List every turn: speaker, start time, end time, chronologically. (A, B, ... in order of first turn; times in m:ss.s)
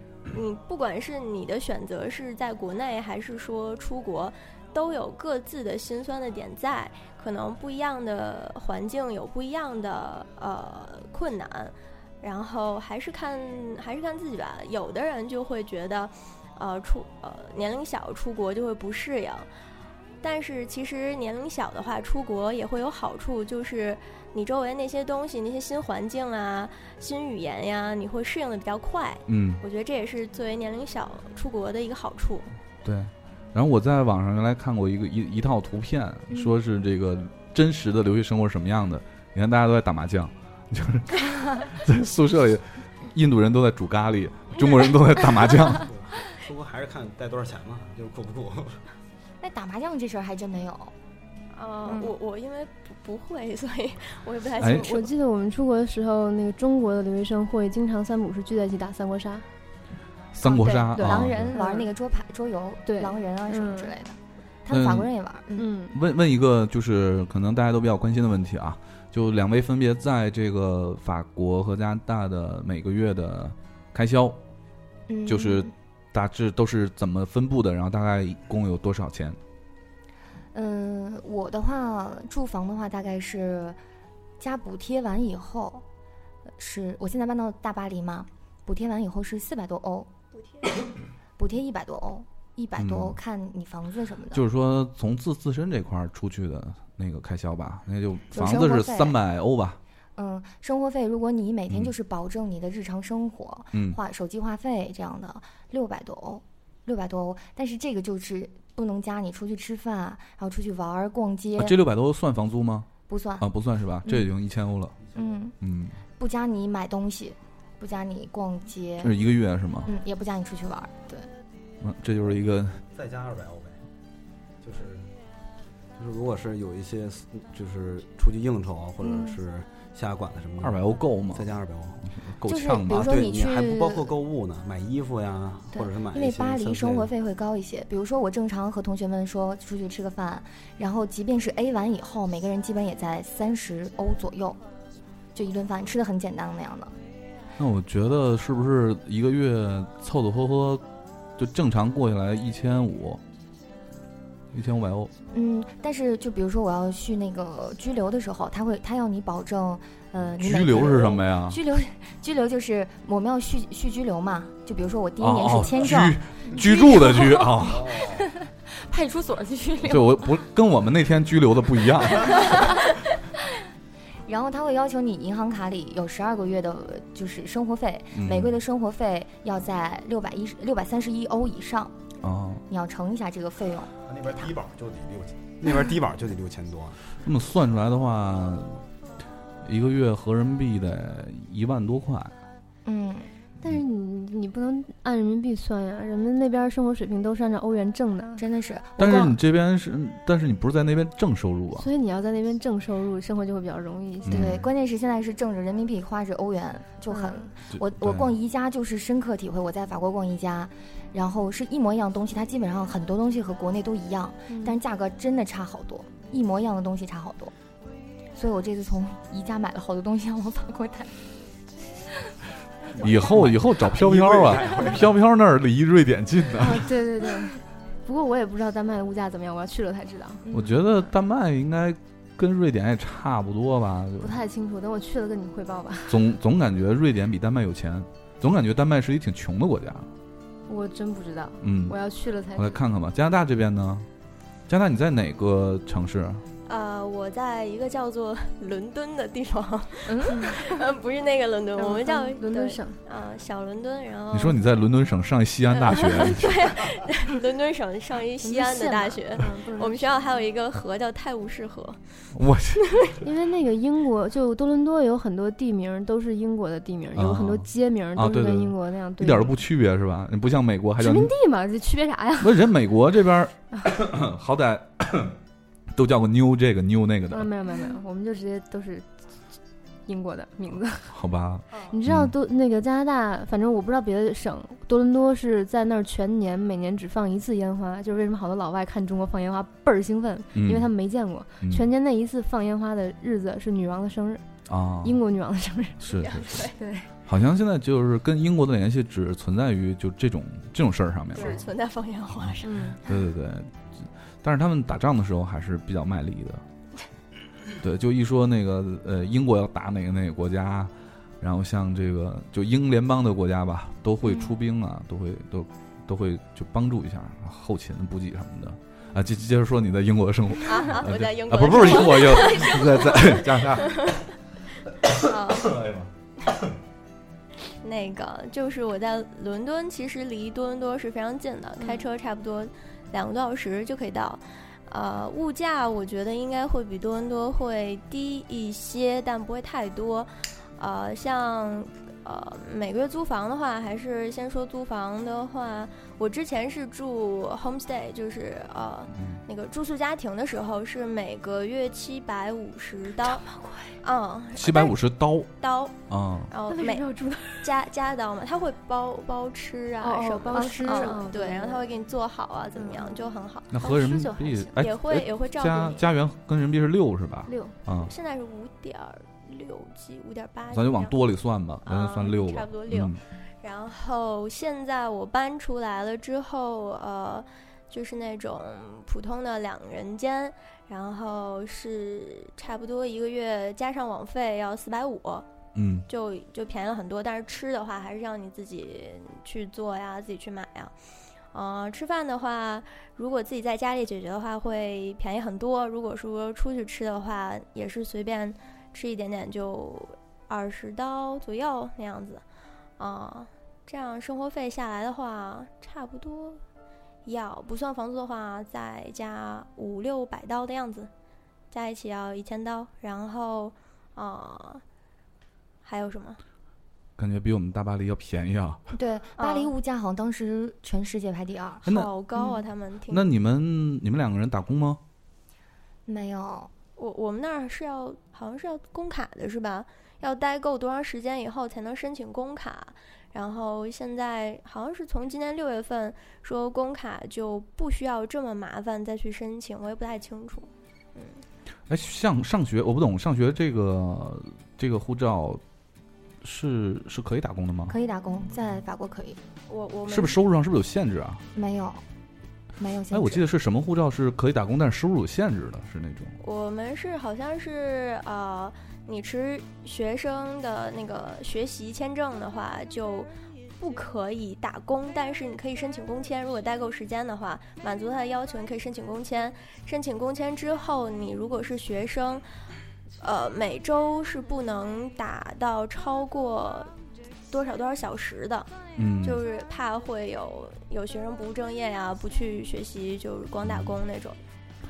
0:00.3-0:19.5 A
0:20.2-0:32.5 A
0:29.3-0:29.6 B
0:32.8-0:45.9 B
0:45.7-0:48.8 C
0:49.4-0:50.9 D
0:51.5-0:55.1 A
0:54.6-0:54.9 B
0:54.6-0:59.4 E
1:00.3-1:01.5 B
1:00.4-1:05.7 D
1:00.9-1:01.9 E
1:02.9-1:03.9 E
1:04.7-1:05.1 B
1:05.6-1:06.0 E
1:05.9-1:14.4 B
1:15.1-1:15.7 D
1:15.2-1:19.4 B
1:20.5-1:23.8 D
1:24.4-1:25.8 D
1:26.6-1:30.1 D
1:31.4-1:34.4 D
1:32.8-1:33.2 B
1:34.3-1:39.8 B
1:38.3-1:39.2 D
1:40.2-1:51.8 D
1:43.7-1:44.0 B
1:51.6-1:52.9 B
1:53.1-1:53.4 D
1:53.4-1:54.9 B
1:55.0-1:55.3 C
1:55.1-1:55.6 D
1:55.6-1:56.0 B
1:56.2-1:59.1 D
1:59.0-1:59.9 B
1:59.8-2:01.3 D
2:01.8-2:02.8 B
2:02.2-2:03.8 C
2:04.6-2:05.1 C
2:06.0-2:12.0 C
2:09.0-2:09.4 D
2:10.6-2:11.5 B
2:12.0-2:13.2 B
2:12.4-2:14.1 D
2:12.9-2:17.1 C
2:15.7-2:24.6 D
2:25.3-2:26.9 D
2:27.6-2:30.8 B
2:31.4-2:33.2 B
2:34.5-2:35.1 B
2:35.3-2:50.3 D
2:40.4-2:41.6 B
2:45.2-2:47.9 B
2:47.6-2:48.3 C
2:49.8-2:52.8 B
2:52.2-2:52.7 D
2:54.2-3:02.0 D
2:58.1-2:58.6 B
3:02.2-3:02.6 B
3:02.7-3:03.9 D
3:04.0-3:07.0 C
3:07.2-3:08.8 B
3:09.6-3:12.3 B
3:12.8-3:13.3 D
3:13.6-3:18.4 E
3:18.4-3:19.4 D
3:19.0-3:21.9 B
3:21.8-3:24.5 E
3:24.2-3:24.6 B
3:24.3-3:37.5 D
3:27.1-3:27.5 E
3:27.7-3:28.3 B
3:34.5-3:34.8 E
3:38.3-3:41.2 D
3:43.0-3:45.1 C
3:43.0-3:46.9 B
3:46.6-3:50.4 E
3:50.5-3:50.8 D
3:50.5-3:54.4 B
3:54.2-3:56.2 E
3:56.1-4:00.1 B
4:00.7-4:02.8 E
4:01.6-4:02.0 B
4:02.5-4:04.0 B
4:04.7-4:06.4 B
4:06.7-4:14.6 A
4:10.2-4:10.6 E
4:11.8-4:13.0 E
4:14.3-4:16.5 B
4:15.8-4:22.0 A
4:18.4-4:20.2 E
4:22.3-4:23.0 B
4:23.2-4:29.6 E
4:27.1-4:31.3 B
4:31.0-4:32.6 E
4:32.4-4:35.3 B
4:35.9-4:37.5 B
4:37.3-4:39.0 E
4:40.0-4:41.1 E
4:41.1-4:42.3 B
4:41.9-4:54.4 E
4:50.5-4:50.9 B
4:51.6-4:51.9 B
4:54.7-4:55.2 B
4:55.0-4:56.0 E
4:56.0-4:56.7 B
4:56.2-4:56.8 A
4:56.8-4:57.0 E
4:57.2-5:01.6 B
5:01.3-5:02.8 A
5:02.6-5:03.0 E
5:03.0-5:06.6 B
5:07.8-5:24.2 B
5:20.6-5:24.2 A
5:25.1-5:25.8 A
5:25.5-5:26.1 B
5:27.8-5:53.4 A
5:49.1-5:49.4 B
5:54.0-5:55.0 A
5:54.5-5:55.5 B
5:55.6-5:56.0 A
5:56.1-5:56.5 B
5:56.5-5:57.1 A
5:56.7-5:57.6 E
5:57.6-6:03.8 A
6:00.0-6:01.8 E
6:00.5-6:01.2 D
6:02.8-6:03.1 E
6:03.7-6:08.1 B
6:03.8-6:04.8 E
6:04.8-6:06.0 A
6:07.4-6:07.7 E
6:08.0-6:11.2 A
6:10.7-6:13.2 B
6:11.8-6:25.5 A
6:25.7-6:26.0 B
6:26.1-6:30.9 A
6:31.5-6:42.4 A
6:43.0-6:46.6 A
6:47.2-6:51.1 A
6:51.7-6:54.8 A
6:55.8-6:56.4 A
6:57.2-6:58.8 B
6:58.9-7:01.8 D
6:59.4-6:59.7 A
7:01.8-7:03.3 A
7:03.1-7:05.0 B
7:06.0-7:06.7 D
7:07.0-7:21.4 A
7:21.9-7:25.6 B
7:26.4-7:27.9 B
7:27.9-7:29.4 D
7:29.7-7:30.4 A
7:30.1-7:31.4 B
7:31.5-7:32.0 D
7:32.8-7:33.4 D
7:33.1-7:36.4 B
7:36.4-7:52.4 A
7:53.2-7:56.9 A
7:57.5-8:04.4 A
7:59.0-7:59.4 B
8:03.6-8:03.9 B